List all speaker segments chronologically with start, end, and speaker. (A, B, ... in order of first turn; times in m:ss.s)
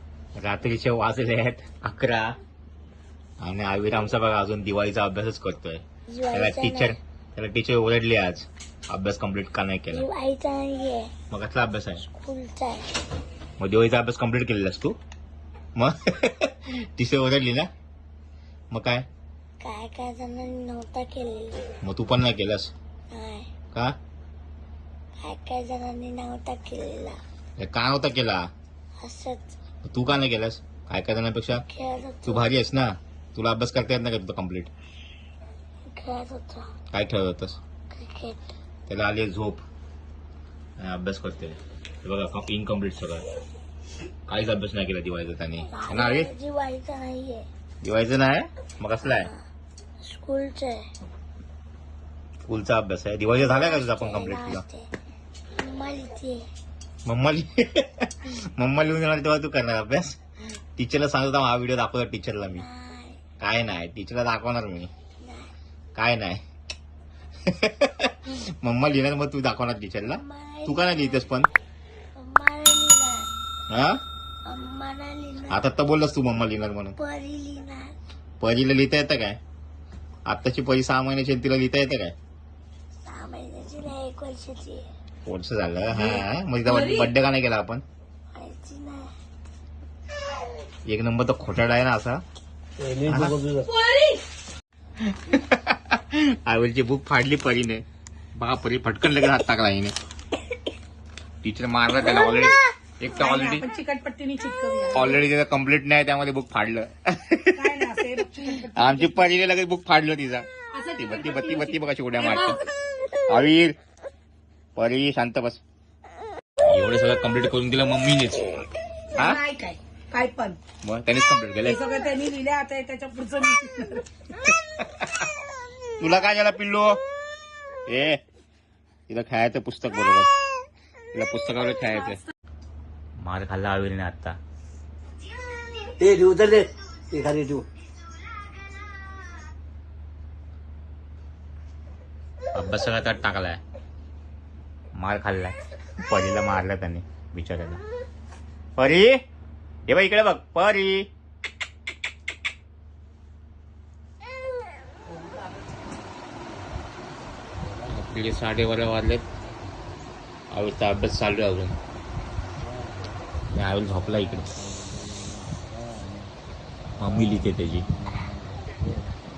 0:00.4-0:02.4 A
0:03.4-0:10.1 A
0:06.1-0:07.0 B
0:09.9-0:11.1 B
0:11.3-0:12.0 A
0:12.0-0:12.9 B
0:13.6-0:15.0 A
0:15.8-0:17.7 A
0:18.7-0:19.1 A
0:19.6-0:21.6 B
0:21.8-0:22.7 A
0:23.1-0:23.5 B
0:25.2-0:27.2 B
0:27.6-0:28.5 A
0:29.0-0:29.6 B
0:29.8-0:31.7 A
0:31.5-0:32.5 B
0:32.2-0:34.7 A
0:35.9-0:36.7 B
0:36.9-0:37.6 A
0:37.9-0:38.5 B
0:38.9-0:39.6 A
0:40.8-0:43.3 A
0:44.3-0:46.3 A
0:45.6-0:47.5 B
0:47.8-0:49.3 A
0:49.1-0:49.4 B
0:50.0-0:50.8 B
0:52.5-0:54.6 A
0:53.4-0:54.9 B
0:55.6-0:56.5 B
0:57.0-1:00.2 A
1:00.8-1:02.6 A
1:02.6-1:03.2 B
1:03.4-1:04.9 A
1:05.2-1:05.5 B
1:06.0-1:06.4 A
1:07.5-1:11.5 A
1:10.1-1:11.3 B
1:12.1-1:13.3 B
1:13.7-1:14.0 A
1:14.4-1:15.7 B
1:15.5-1:17.0 A
1:17.0-1:17.9 B
1:18.4-1:19.4 A
1:20.3-1:22.2 A
1:23.0-1:24.9 B
1:25.2-1:27.8 A
1:26.0-1:27.1 C
1:28.3-1:29.1 B
1:30.9-1:32.2 A
1:32.8-1:33.7 D
1:33.1-1:33.4 A
1:33.7-1:34.2 C
1:35.0-1:40.0 A
1:41.4-1:43.6 A
1:43.1-1:45.2 C
1:44.9-1:47.8 A
1:47.6-1:49.3 C
1:48.7-1:52.6 A
1:50.7-1:52.6 C
1:53.3-1:53.8 A
1:54.8-1:55.6 A
1:56.6-1:59.4 A
1:59.1-2:00.6 C
2:00.8-2:01.8 A
2:01.6-2:04.1 C
2:04.6-2:05.3 A
2:06.0-2:07.0 A
2:07.9-2:08.2 A
2:09.1-2:10.3 A
2:11.1-2:12.2 A
2:13.2-2:14.4 A
2:16.0-2:17.6 D
2:22.5-2:23.6 A
2:25.0-2:27.8 A
2:28.8-2:29.2 A
2:29.9-2:31.1 A
2:37.9-2:39.3 A
2:40.5-2:41.8 A
2:43.5-2:44.5 A
2:47.0-2:47.9 A